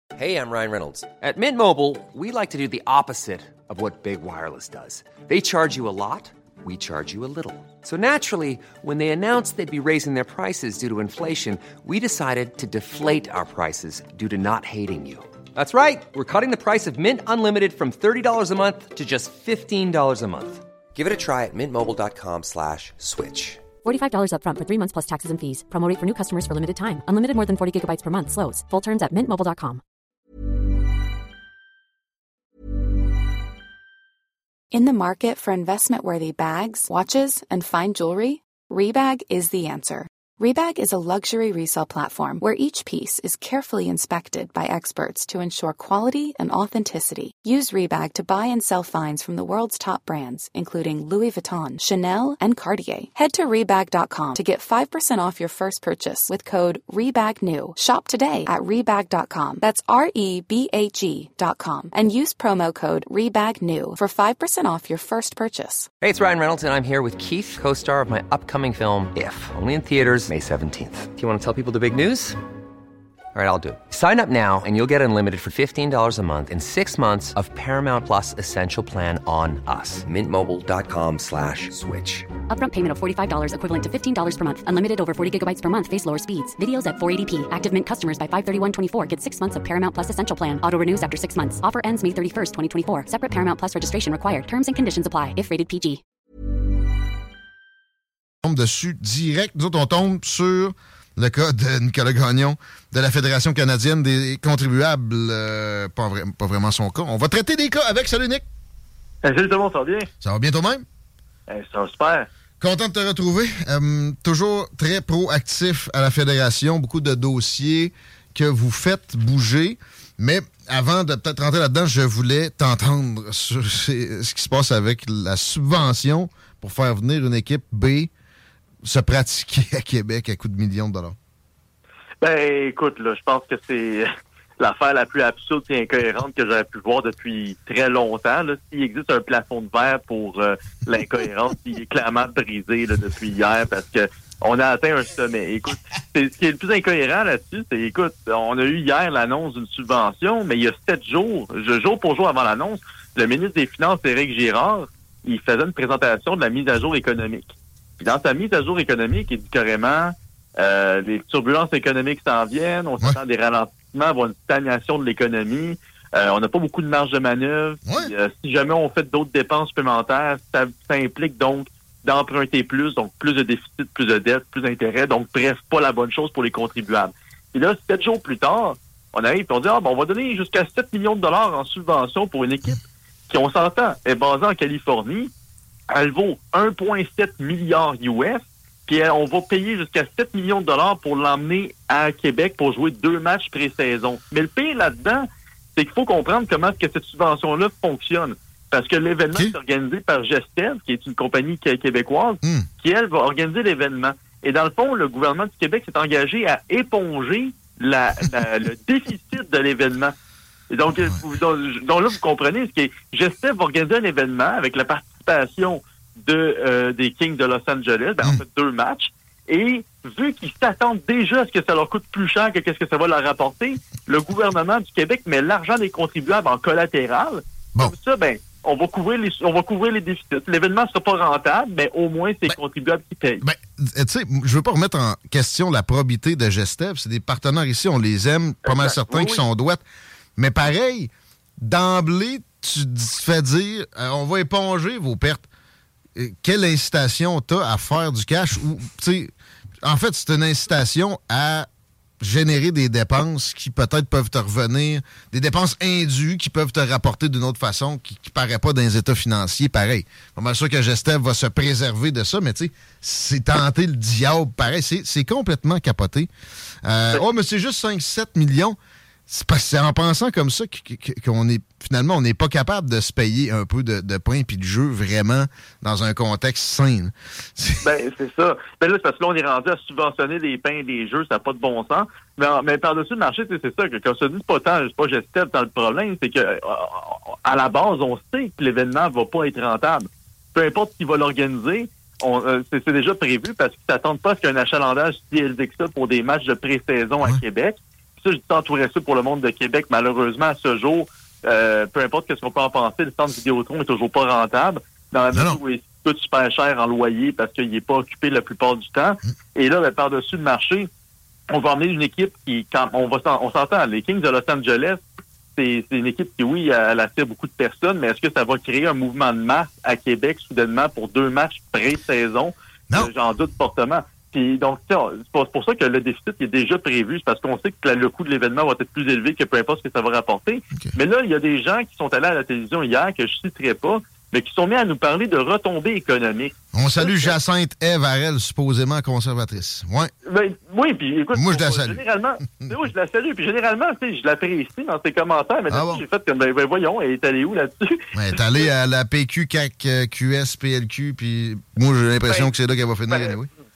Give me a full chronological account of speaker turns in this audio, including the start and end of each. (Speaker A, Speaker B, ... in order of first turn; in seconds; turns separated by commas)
Speaker A: 0.1-23.7, Speaker B: 23.8-29.8, Speaker C: 34.7-65.9, Speaker A: 66.0-72.4, Speaker A: 73.3-82.3, Speaker B: 82.5-96.0, Speaker D: 98.4-108.4, Speaker E: 109.2-110.1, Speaker D: 110.2-110.8, Speaker E: 111.5-112.3, Speaker D: 112.6-128.1, Speaker D: 128.8-131.2, Speaker E: 132.2-134.1, Speaker E: 134.6-185.3, Speaker D: 167.8-168.1, Speaker E: 185.9-210.1, Speaker E: 210.7-233.4, Speaker D: 233.4-239.8, Speaker E: 238.6-239.4, Speaker D: 240.4-241.1, Speaker D: 241.6-245.4, Speaker D: 246.2-249.3, Speaker D: 249.8-251.7, Speaker D: 252.2-266.3, Speaker D: 266.8-268.8, Speaker D: 269.3-277.9, Speaker E: 277.8-310.9, Speaker D: 305.3-305.6, Speaker E: 311.5-315.0, Speaker E: 315.6-337.3, Speaker D: 336.7-340.1, Speaker E: 340.2-348.7, Speaker D: 341.3-342.0, Speaker D: 345.7-346.0, Speaker D: 348.1-353.5, Speaker E: 352.2-352.5, Speaker E: 353.1-353.4